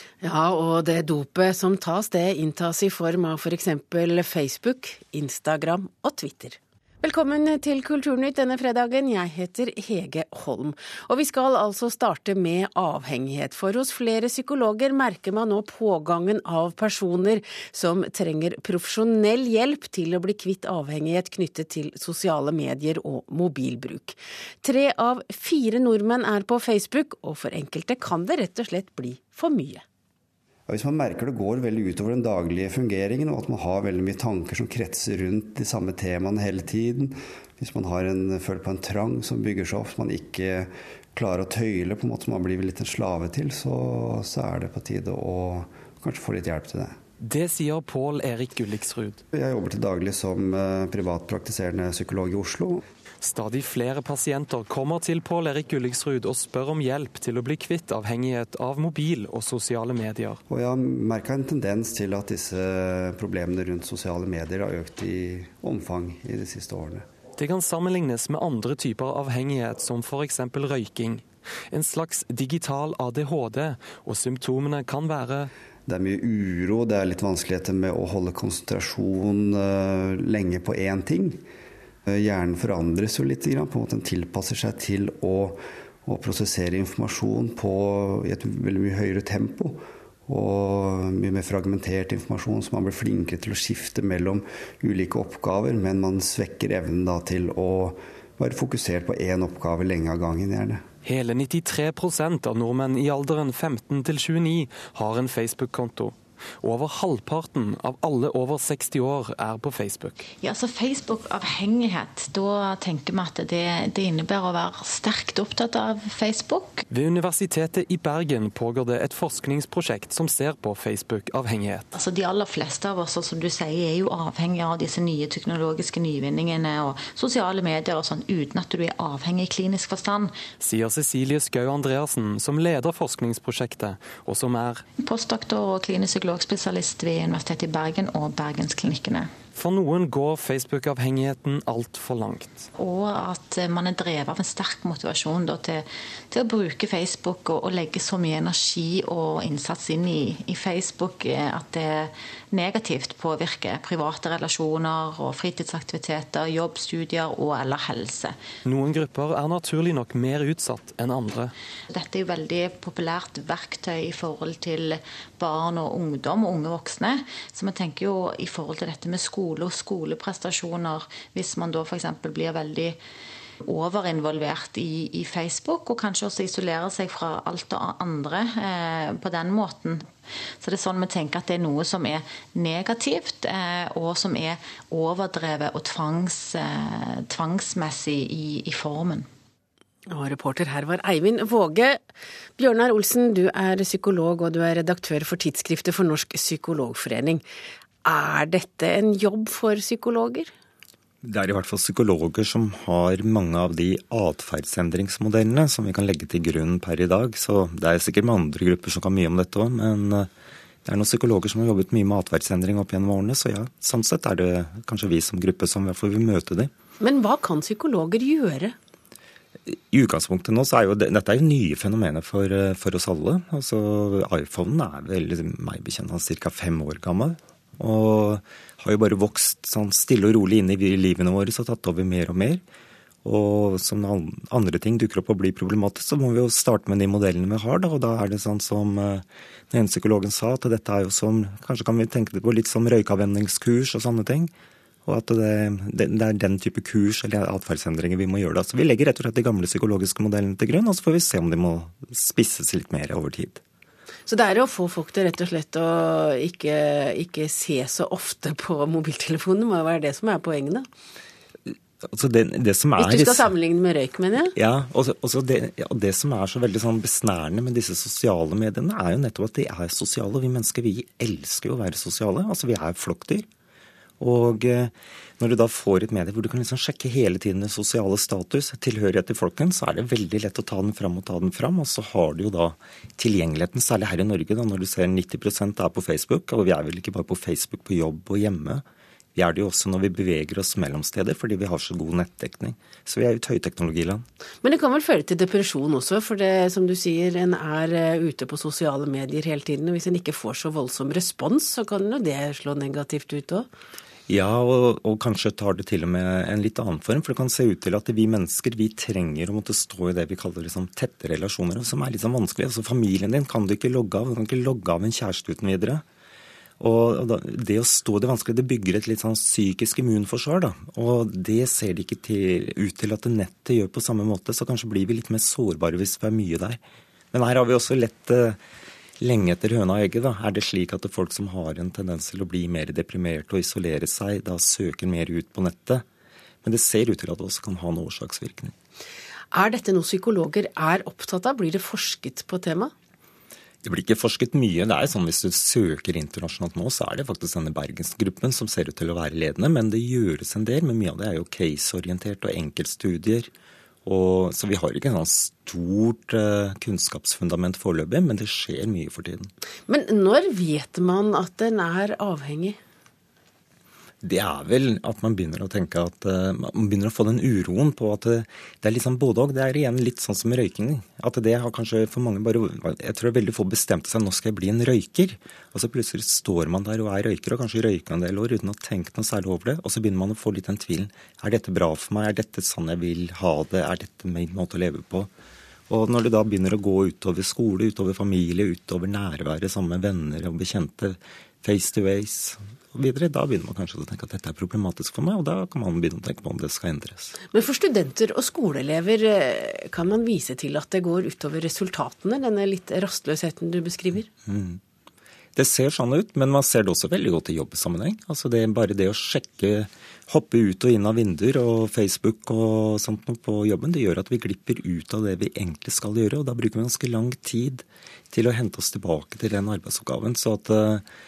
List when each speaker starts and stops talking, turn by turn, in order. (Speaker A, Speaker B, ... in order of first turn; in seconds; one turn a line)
Speaker A: 0.2-29.8
Speaker B: 30.7-47.0
Speaker C: 47.2-49.2
Speaker B: 49.3-52.9
Speaker C: 53.2-60.4
Speaker B: 60.5-67.1
Speaker C: 67.4-75.5
Speaker B: 75.9-81.4
Speaker B: 82.1-100.8
Speaker C: 101.0-110.2
Speaker D: 110.4-116.8
Speaker C: 116.9-121.9
Speaker D: 121.9-130.4
Speaker C: 130.6-134.8
Speaker D: 135.0-139.3
Speaker C: 139.6-142.6
Speaker D: 142.8-158.4
Speaker C: 158.7-161.5
Speaker D: 161.9-173.0
Speaker D: 173.6-180.1
Speaker D: 180.6-189.3
Speaker A: 190.1-192.0
Speaker A: 192.6-197.4
Speaker A: 198.1-200.5
Speaker E: 201.2-210.3
Speaker E: 210.8-216.7
Speaker A: 217.0-218.8
Speaker E: 219.7-232.6
Speaker E: 233.2-244.5
Speaker E: 245.1-253.6
Speaker A: 254.3-260.9
Speaker E: 261.7-263.5
Speaker A: 263.0-264.5
Speaker E: 264.6-273.5
Speaker E: 274.2-288.8
Speaker E: 289.4-294.2
Speaker A: 294.6-303.7
Speaker E: 304.3-316.0
Speaker E: 316.8-326.8
Speaker E: 327.3-328.6
Speaker E: 329.2-336.1
Speaker E: 336.6-338.7
Speaker A: 339.5-342.9
Speaker E: 343.8-353.5
Speaker E: 354.1-359.5
Speaker A: 359.9-362.8
Speaker E: 364.2-385.3
Speaker E: 385.9-397.3
Speaker A: 397.5-404.3
Speaker E: 404.5-404.8
Speaker E: 405.6-421.0